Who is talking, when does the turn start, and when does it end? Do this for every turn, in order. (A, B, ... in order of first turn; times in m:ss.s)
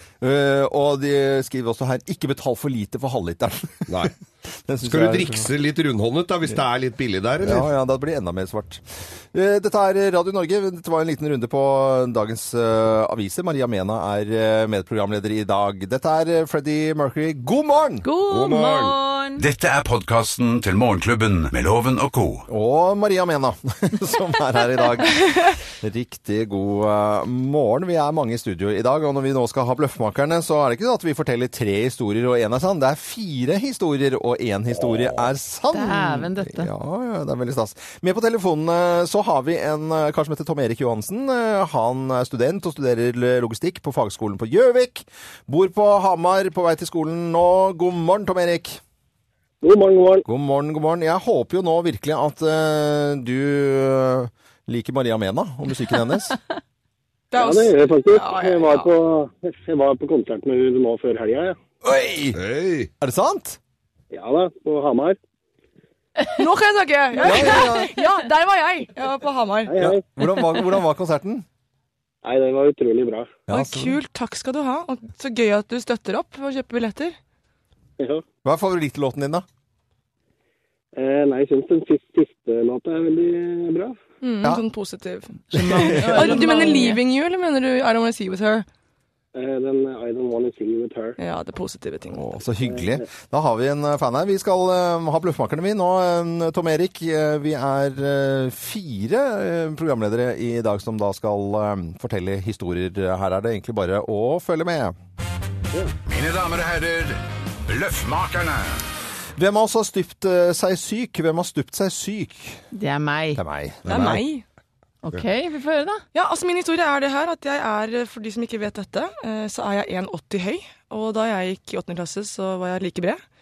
0:00.2-0:04.0 A
0:03.9-0:04.1 B
0:04.7-0:05.5 A
0:04.8-0:07.7 B
0:07.4-0:18.0 A
0:18.0-0:19.4 C
0:18.3-0:19.0 B
0:19.4-0:22.4 D
0:22.5-0:48.8 A
0:25.2-0:25.5 E
0:35.7-0:36.7 C
0:49.6-0:50.2 F
0:50.2-0:56.4 A
0:57.3-0:58.9 E
0:57.4-1:01.6 F
1:01.8-1:02.4 A
1:02.3-1:02.9 B
1:03.0-1:03.6 A
1:04.1-1:05.2 F
1:06.2-1:09.7 E
1:07.2-1:08.0 A
1:09.7-1:10.0 F
1:09.8-1:11.4 A
1:12.2-1:13.4 F
1:13.5-1:14.0 A
1:13.5-1:17.2 E
1:18.0-1:18.2 F
1:18.4-1:19.4 A
1:20.9-1:24.0 F
1:24.2-1:28.6 E
1:25.5-1:27.0 C
1:25.7-1:26.4 A
1:29.3-1:31.2 F
1:31.2-1:32.3 E
1:32.1-1:44.9 A
1:32.7-1:33.0 F
1:46.0-1:48.8 D
1:49.4-1:52.6 A
1:52.7-1:53.4 C
1:53.4-1:54.2 A
1:53.8-1:54.4 E
1:55.0-1:56.0 C
1:56.1-2:03.2 E